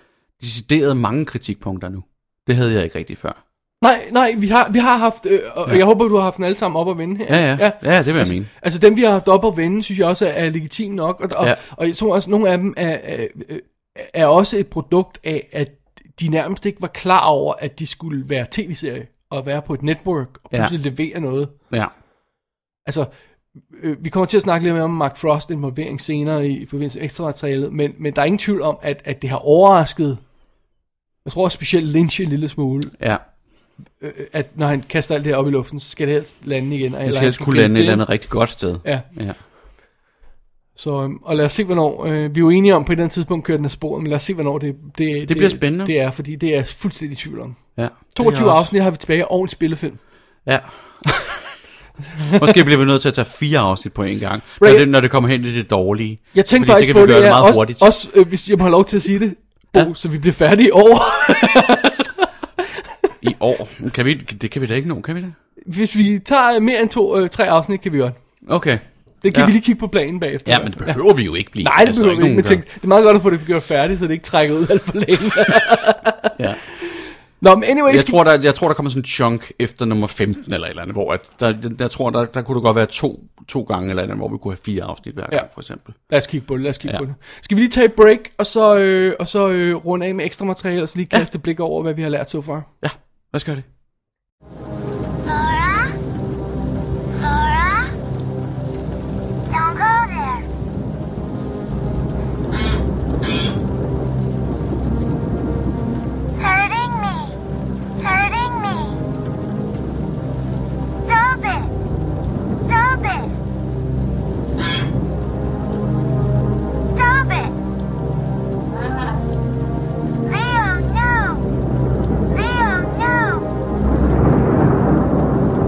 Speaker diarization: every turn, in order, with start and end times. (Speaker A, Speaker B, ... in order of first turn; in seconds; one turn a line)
Speaker A: 0.4-3.4
Speaker B: 3.8-21.5
Speaker A: 7.3-8.5
Speaker B: 22.8-23.1
Speaker B: 23.7-30.2
Speaker B: 31.2-33.0
Speaker B: 34.0-38.2
Speaker A: 37.0-39.4
Speaker B: 40.8-50.0
Speaker A: 45.3-45.9
Speaker A: 47.8-48.7
Speaker A: 50.4-51.5
Speaker B: 52.2-52.5
Speaker A: 52.4-57.9
Speaker B: 54.6-54.9
Speaker B: 56.3-62.3
Speaker A: 63.2-65.3
Speaker B: 65.7-68.2
Speaker A: 68.5-69.5
Speaker B: 69.2-76.3
Speaker A: 70.4-72.6
Speaker A: 76.3-76.6
Speaker B: 77.4-78.2
Speaker A: 77.9-86.0
Speaker B: 85.3-92.7
Speaker A: 92.8-93.7
Speaker C: 95.2-95.9
Speaker C: 97.2-97.9
Speaker C: 99.5-100.5
Speaker C: 106.4-107.4
Speaker C: 108.0-109.0
Speaker C: 111.0-111.7
Speaker C: 112.6-113.3
Speaker C: 116.9-117.5
Speaker C: 120.2-121.5
Speaker C: 122.3-123.5